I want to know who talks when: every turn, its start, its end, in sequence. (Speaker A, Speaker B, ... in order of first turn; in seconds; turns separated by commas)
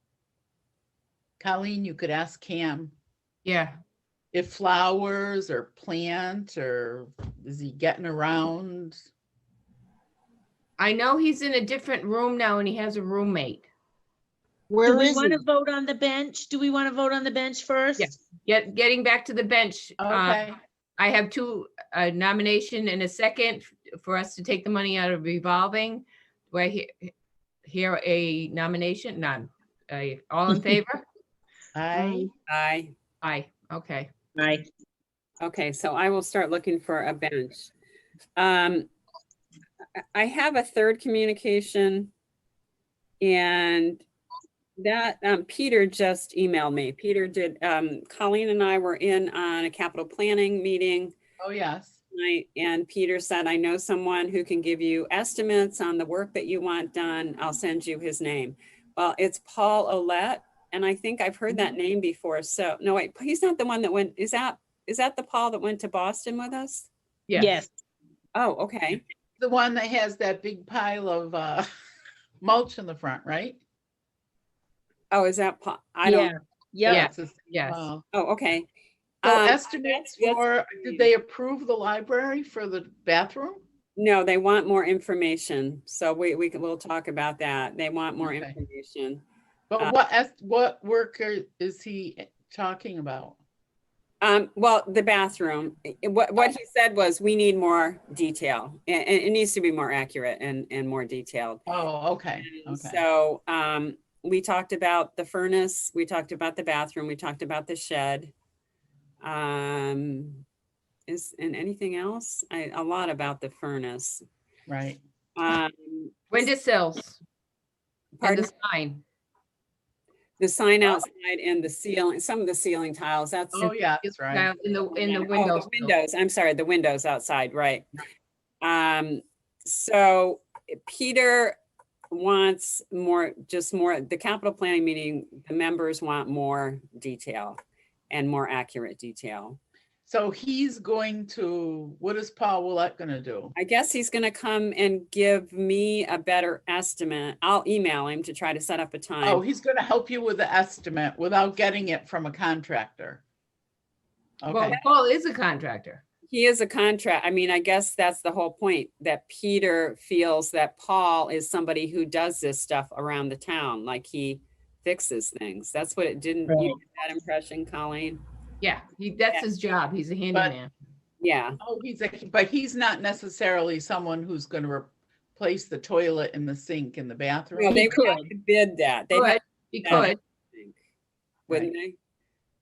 Speaker A: 1.4-2.9, Speaker B: 3.4-3.8, Speaker A: 4.3-9.1, Speaker B: 10.8-13.7, Speaker C: 14.7-18.1, Speaker B: 15.0-15.3, Speaker B: 18.0-27.1, Speaker A: 20.0-20.6, Speaker B: 27.6-31.1, Speaker A: 31.7-32.3, Speaker C: 32.0-32.2, Speaker D: 32.5-32.9, Speaker B: 33.2-34.1, Speaker C: 34.4-34.6, Speaker D: 35.4-37.7, Speaker D: 38.4-38.9, Speaker D: 40.1-42.1, Speaker D: 43.2-44.0, Speaker D: 44.8-51.1, Speaker A: 51.4-52.0, Speaker D: 52.1-66.9, Speaker B: 67.3-67.5, Speaker C: 67.4-67.7, Speaker D: 68.3-69.0, Speaker A: 69.4-71.7, Speaker A: 72.4-73.6, Speaker D: 75.1-76.3, Speaker C: 76.0-77.1, Speaker A: 76.9-78.0, Speaker B: 76.9-77.9, Speaker D: 78.1-78.7, Speaker A: 79.2-83.6, Speaker D: 79.2-81.1, Speaker D: 84.0-89.2, Speaker A: 88.2-88.5, Speaker A: 89.7-93.4, Speaker D: 94.2-101.6, Speaker A: 101.7-103.0, Speaker D: 102.5-108.3, Speaker D: 109.2-110.4, Speaker D: 111.1-114.2, Speaker A: 114.7-115.0, Speaker D: 115.3-116.4, Speaker B: 116.3-117.2, Speaker D: 118.2-118.5, Speaker B: 118.2-119.0, Speaker D: 120.4-123.7, Speaker A: 123.5-124.5, Speaker B: 124.0-125.9, Speaker D: 124.9-127.9, Speaker D: 128.6-131.6, Speaker D: 132.1-137.6, Speaker D: 138.1-139.6, Speaker A: 140.1-143.5, Speaker D: 143.5-149.4, Speaker A: 149.2-153.2, Speaker A: 154.4-154.8, Speaker B: 154.5-156.0, Speaker D: 156.3-168.2, Speaker B: 168.6-170.7, Speaker D: 171.2-171.6, Speaker A: 171.6-177.8, Speaker D: 177.6-180.7, Speaker B: 177.7-178.3, Speaker B: 179.1-180.2, Speaker D: 181.5-181.9